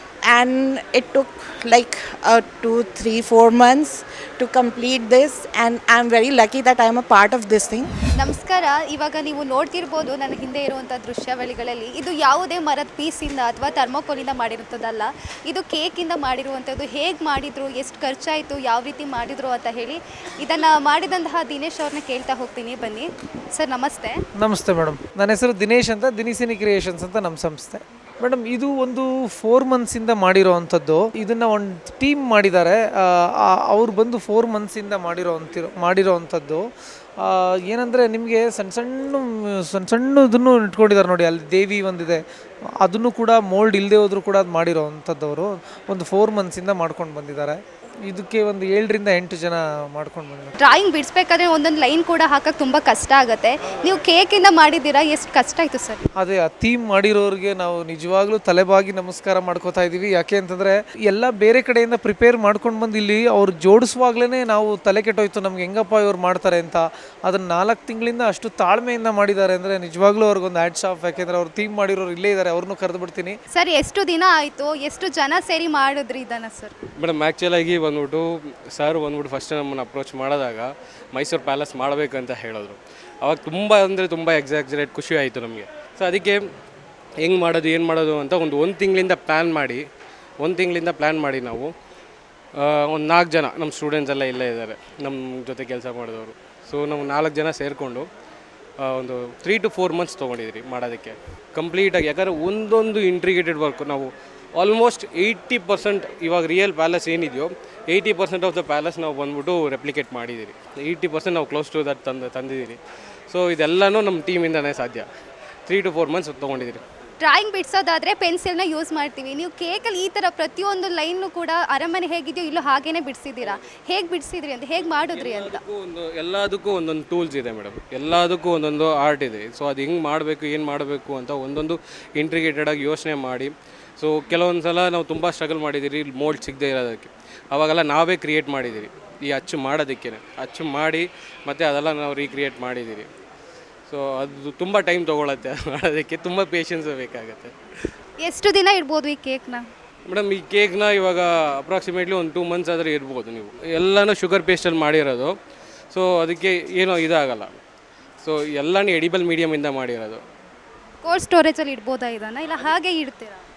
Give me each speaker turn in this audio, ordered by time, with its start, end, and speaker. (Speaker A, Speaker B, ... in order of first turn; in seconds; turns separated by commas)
Speaker A: 0.2-7.9, Speaker B: 8.2-24.2, Speaker C: 24.4-36.6, Speaker C: 37.2-42.2, Speaker C: 42.8-50.5, Speaker B: 50.6-56.0, Speaker C: 56.2-73.4, Speaker B: 73.5-76.7, Speaker D: 77.0-86.4, Speaker D: 87.2-89.8, Speaker D: 90.4-91.7, Speaker D: 92.6-98.1, Speaker D: 98.8-112.8, Speaker D: 113.3-115.1, Speaker D: 115.7-116.8, Speaker B: 117.2-125.6, Speaker D: 125.1-143.1, Speaker D: 143.9-147.5, Speaker B: 148.2-149.7, Speaker D: 150.1-155.3, Speaker D: 155.9-157.6, Speaker D: 158.2-160.2, Speaker B: 161.0-163.4